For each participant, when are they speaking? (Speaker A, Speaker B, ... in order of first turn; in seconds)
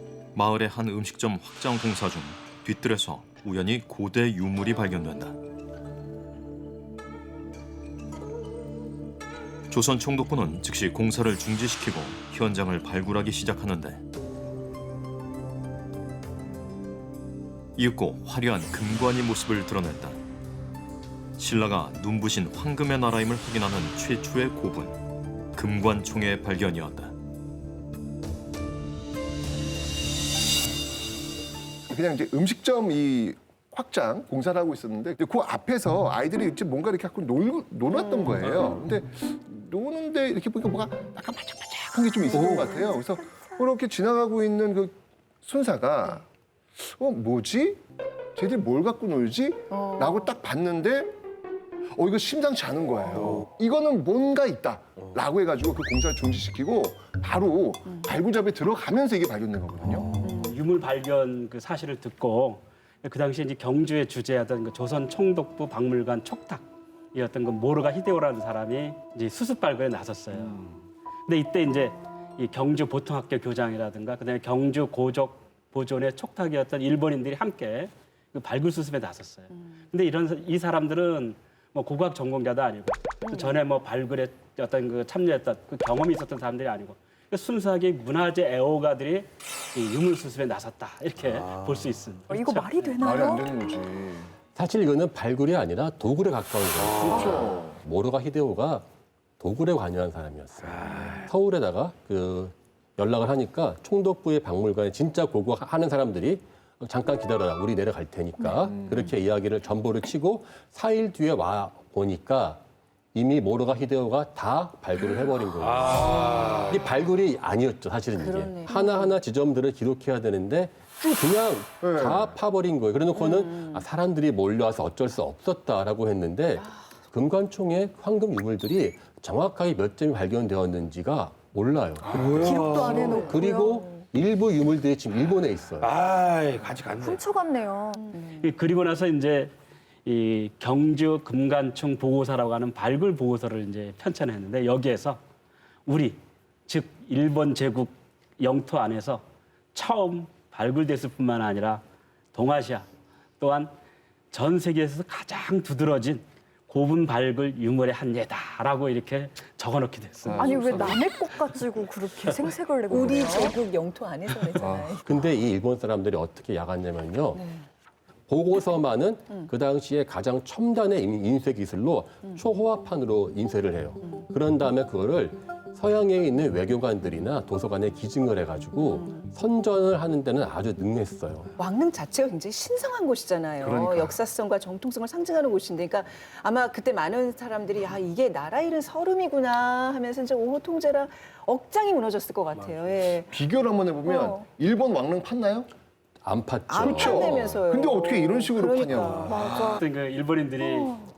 Speaker A: 0.3-5.4, 9.7-14.0, 17.8-20.2, 21.4-25.0, 25.6-27.1
Speaker B: 31.9-46.3, 46.8-47.8, 48.4-51.1, 51.9-60.1, 93.0-94.3, 96.9-97.8, 121.8-122.3, 160.2-161.1, 164.6-164.9, 183.6-184.2, 193.3-195.7, 196.8-199.6
Speaker C: 42.3-43.7, 92.3-93.5, 132.4-134.0, 137.0-138.3, 160.3-163.6, 194.1-194.5, 199.3-199.9, 200.6-201.1
Speaker D: 42.3-42.6, 91.2-91.9, 116.1-116.6, 132.1-133.3, 135.8-137.2, 198.9-199.4
Speaker E: 49.7-50.2, 118.2-119.1, 123.5-123.8, 162.9-165.3, 167.3-167.7, 181.6-193.4, 196.7-199.4
Speaker F: 60.4-92.9, 138.4-139.5, 140.1-145.2, 145.9-151.8, 152.3-152.9, 153.4-153.7, 154.3-160.4, 199.8-200.9
Speaker G: 94.5-98.9, 99.4-112.6, 113.1-135.9, 165.1-167.4, 168.3-181.5, 196.2-197.6